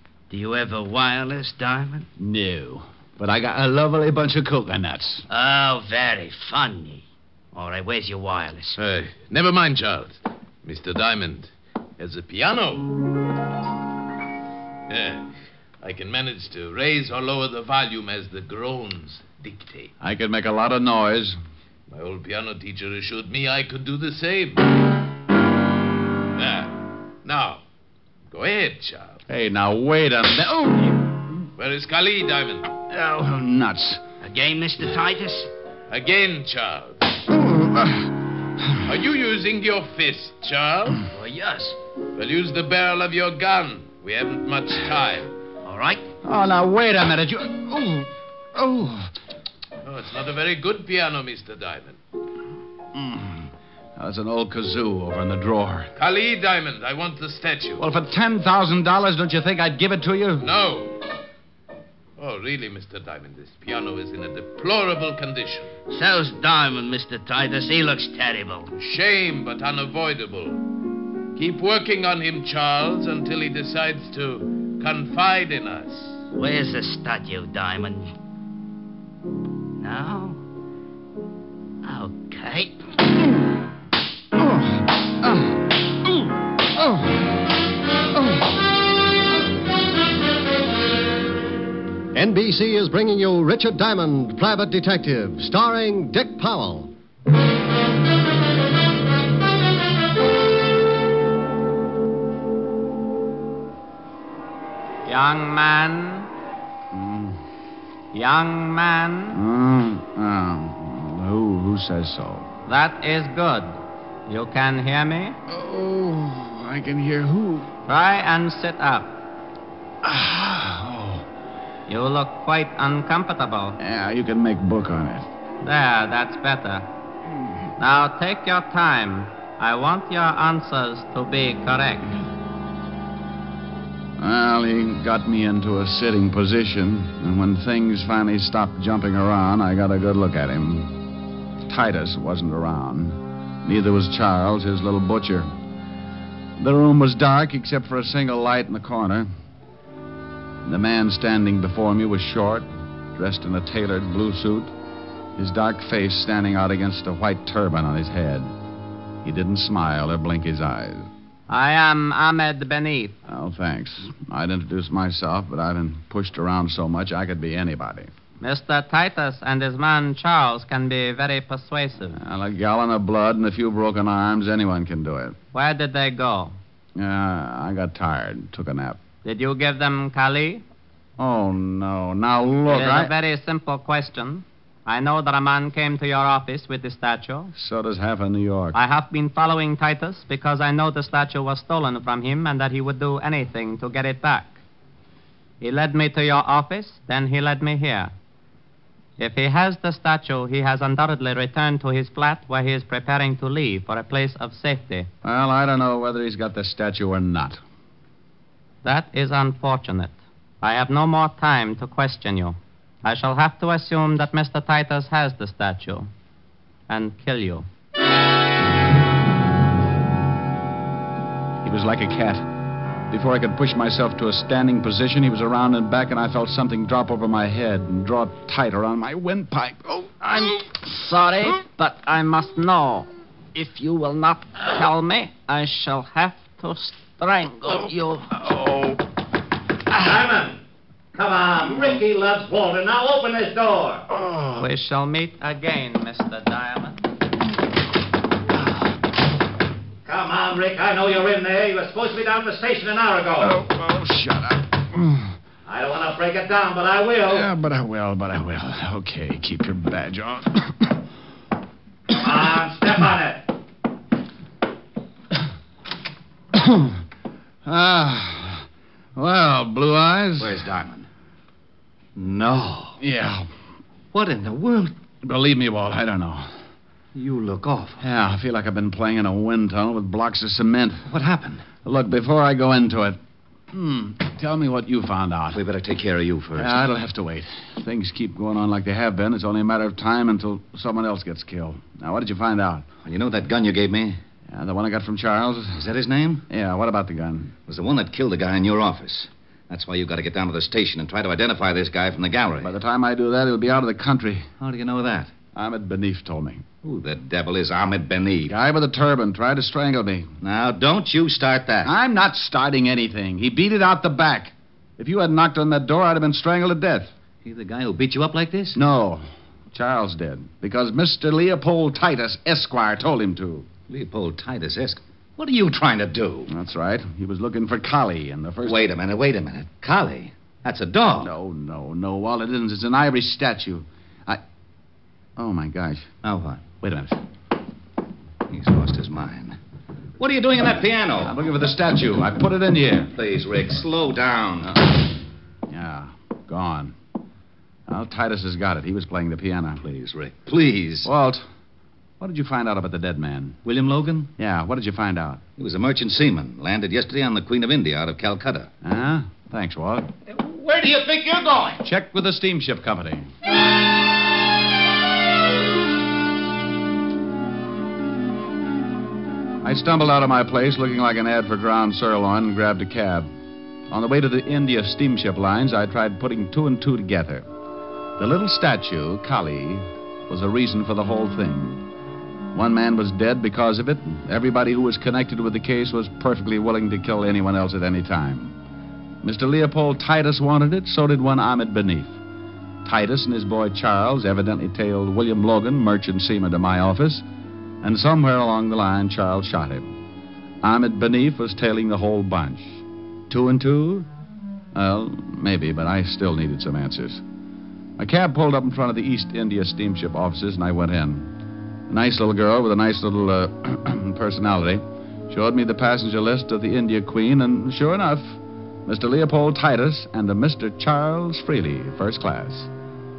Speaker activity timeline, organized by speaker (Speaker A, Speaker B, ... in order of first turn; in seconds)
Speaker A: 0.3-2.1, 5.3-8.8, 34.2-35.5, 41.1-41.8, 45.6-46.1, 65.9-68.7, 76.3-78.1, 79.8-80.4, 81.8-82.8
Speaker B: 2.2-5.2, 20.0-21.4, 29.3-31.2, 32.9-34.0, 37.3-38.8, 46.2-49.1, 52.9-55.9, 57.8-60.5, 106.9-107.4, 109.3-112.5, 115.5-117.7, 120.0-121.2, 123.8-125.3, 134.2-141.0, 141.7-145.5, 146.6-149.3, 150.6-154.7, 155.4-158.5, 159.2-161.1, 163.3-168.1, 172.1-175.4, 177.0-179.0, 181.2-183.1, 187.6-188.8, 205.2-207.6, 221.6-222.5, 223.1-230.2, 238.5-239.0, 244.2-244.5, 253.4-255.3, 257.3-261.0, 266.5-267.0, 267.6-270.6, 273.0-273.5, 275.2-276.7, 278.0-281.1, 281.8-283.2, 283.7-285.6, 286.6-292.9, 294.5-295.9, 296.5-297.5, 302.6-304.5, 305.5-306.6, 308.5-310.3, 311.8-317.1, 318.8-323.7, 326.5-328.9, 331.2-334.4, 335.4-336.1, 336.8-337.2, 341.2-343.1, 345.7-346.9, 347.9-349.8, 351.0-351.5, 352.2-353.6, 354.4-355.4, 358.8-360.1, 361.8-363.3, 369.6-373.3, 373.9-377.5, 378.2-381.8, 382.5-388.6, 389.2-392.2, 392.8-397.2, 397.8-400.0, 400.6-404.1, 404.7-407.2, 408.0-411.3, 411.9-422.7
Speaker C: 8.8-12.9, 14.9-15.3, 15.8-19.9, 21.9-24.6, 26.4-26.7, 27.2-27.6, 28.3-29.2, 31.6-32.7, 35.9-37.1, 38.8-41.1, 42.1-45.3, 49.8-52.0, 56.0-57.8, 60.4-61.0, 62.2-65.7, 68.8-70.6, 71.3-76.2
Speaker D: 92.1-96.9
Speaker E: 105.1-106.3, 108.1-109.4, 112.7-115.4, 117.9-119.2, 121.9-123.8, 125.6-126.9, 127.8-132.2, 161.5-163.2, 168.4-172.2, 175.5-176.6, 179.2-180.6, 182.7-187.5, 188.7-194.6, 195.6-198.1, 199.2-205.1, 208.8-216.1, 216.9-217.7, 230.2-238.3, 244.6-247.0
Speaker F: 240.2-240.6, 241.2-244.0, 250.1-253.4, 255.7-257.2
Speaker G: 270.4-271.1, 272.2-273.0, 274.1-274.9, 277.1-278.0, 281.1-281.6, 285.5-286.8, 293.1-294.2, 295.7-296.5, 297.7-302.7, 304.6-305.3, 306.8-308.5, 310.4-311.9, 317.4-318.8, 323.9-326.5, 328.6-331.3, 336.2-336.6, 338.5-339.6, 340.2-341.3, 343.2-344.8, 349.8-351.1, 353.6-354.3, 355.6-358.7, 360.3-361.8